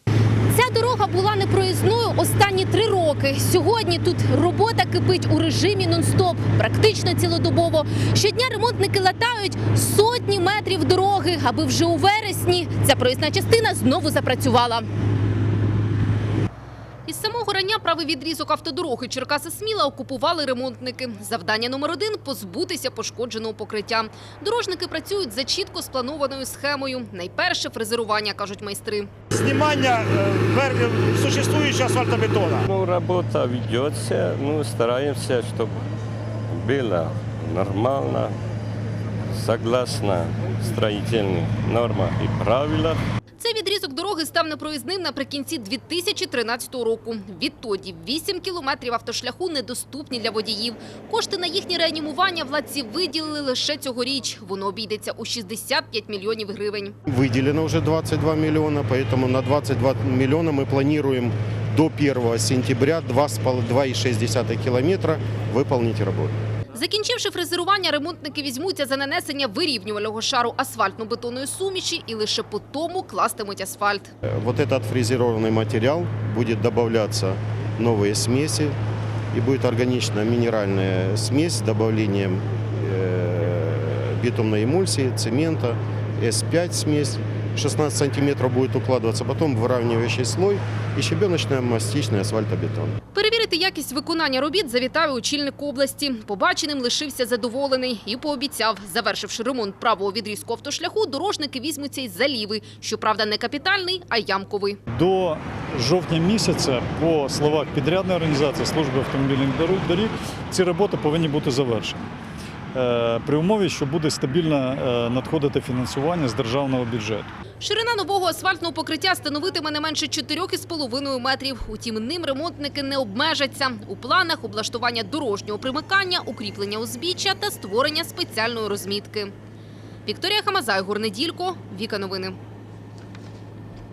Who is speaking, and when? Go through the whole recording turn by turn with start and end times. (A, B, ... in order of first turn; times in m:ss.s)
0:00.5-0:14.8 A
0:17.0-0:29.1 A
0:29.3-0:32.6 B
0:32.6-0:35.8 C
0:36.5-0:38.4 C
0:39.3-0:43.0 C
0:43.4-0:56.9 A
0:57.1-1:06.3 D
1:06.7-1:14.1 A
1:14.2-1:18.7 D
1:19.3-1:33.0 D
1:33.1-1:44.8 A
1:44.9-1:52.1 E
1:52.7-1:57.3 E
1:57.6-2:09.3 A
2:10.0-2:12.4 A